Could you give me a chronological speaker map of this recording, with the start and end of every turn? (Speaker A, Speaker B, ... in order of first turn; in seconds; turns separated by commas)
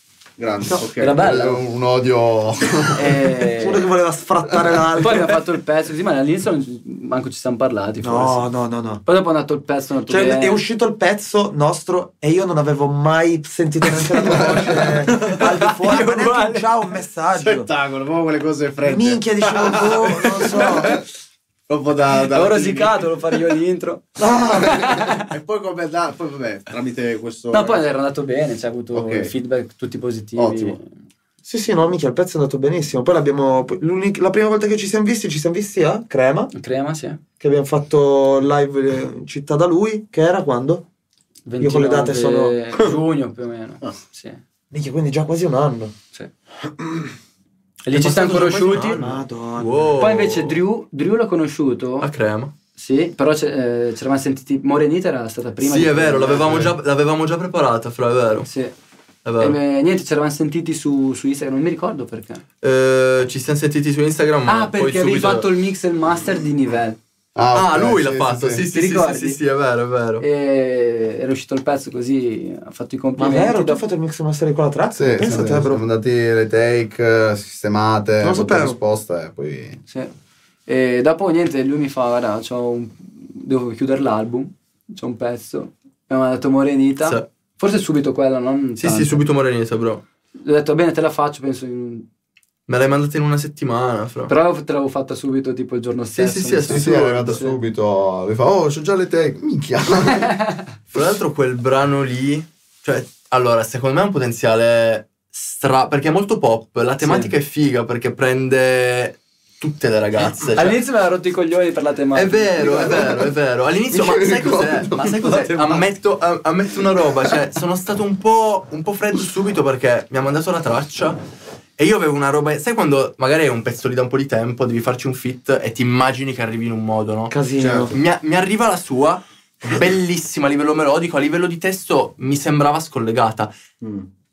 Speaker A: 0.4-1.2, Speaker B: 0.8-1.6, Speaker C: 1.1-3.4, Speaker B: 2.9-3.9, Speaker D: 3.6-5.3, Speaker B: 4.9-8.4, Speaker D: 8.0-9.0, Speaker B: 9.0-10.6, Speaker D: 10.1-17.7, Speaker C: 14.3-14.7, Speaker B: 15.1-16.7, Speaker A: 17.3-21.0, Speaker D: 18.9-21.0, Speaker A: 21.7-23.1, Speaker B: 22.2-25.3, Speaker D: 24.2-25.1, Speaker A: 25.1-27.8, Speaker B: 27.5-30.8, Speaker A: 28.9-29.3, Speaker A: 30.3-30.8, Speaker D: 31.4-36.5, Speaker B: 36.5-37.2, Speaker D: 37.4-40.8, Speaker B: 41.5-44.4, Speaker D: 41.6-42.5, Speaker D: 44.7-45.9, Speaker B: 47.8-49.1, Speaker E: 47.9-49.0, Speaker A: 48.5-48.9, Speaker D: 48.9-50.0, Speaker E: 49.6-50.6, Speaker B: 50.0-52.1, Speaker E: 52.0-52.5, Speaker B: 52.7-56.6, Speaker E: 55.6-58.5, Speaker B: 58.4-58.7, Speaker E: 59.2-59.5, Speaker B: 59.4-62.4, Speaker E: 62.6-65.5, Speaker B: 64.5-67.0, Speaker C: 67.3-68.6, Speaker E: 67.5-70.2, Speaker B: 68.7-69.4, Speaker B: 70.2-73.8, Speaker D: 73.1-75.8, Speaker C: 75.0-79.8, Speaker D: 78.2-78.8, Speaker B: 80.7-89.2, Speaker E: 88.8-90.0, Speaker B: 90.4-92.0, Speaker E: 92.7-94.3, Speaker B: 94.3-97.5, Speaker E: 96.1-97.4, Speaker C: 96.7-100.4, Speaker E: 100.9-110.8, Speaker B: 107.0-107.3, Speaker B: 110.5-112.9, Speaker E: 112.1-121.2, Speaker C: 112.6-113.3, Speaker C: 113.9-115.2, Speaker E: 121.8-127.3, Speaker D: 127.3-128.0, Speaker A: 127.6-127.9, Speaker E: 127.9-133.5, Speaker A: 133.8-134.1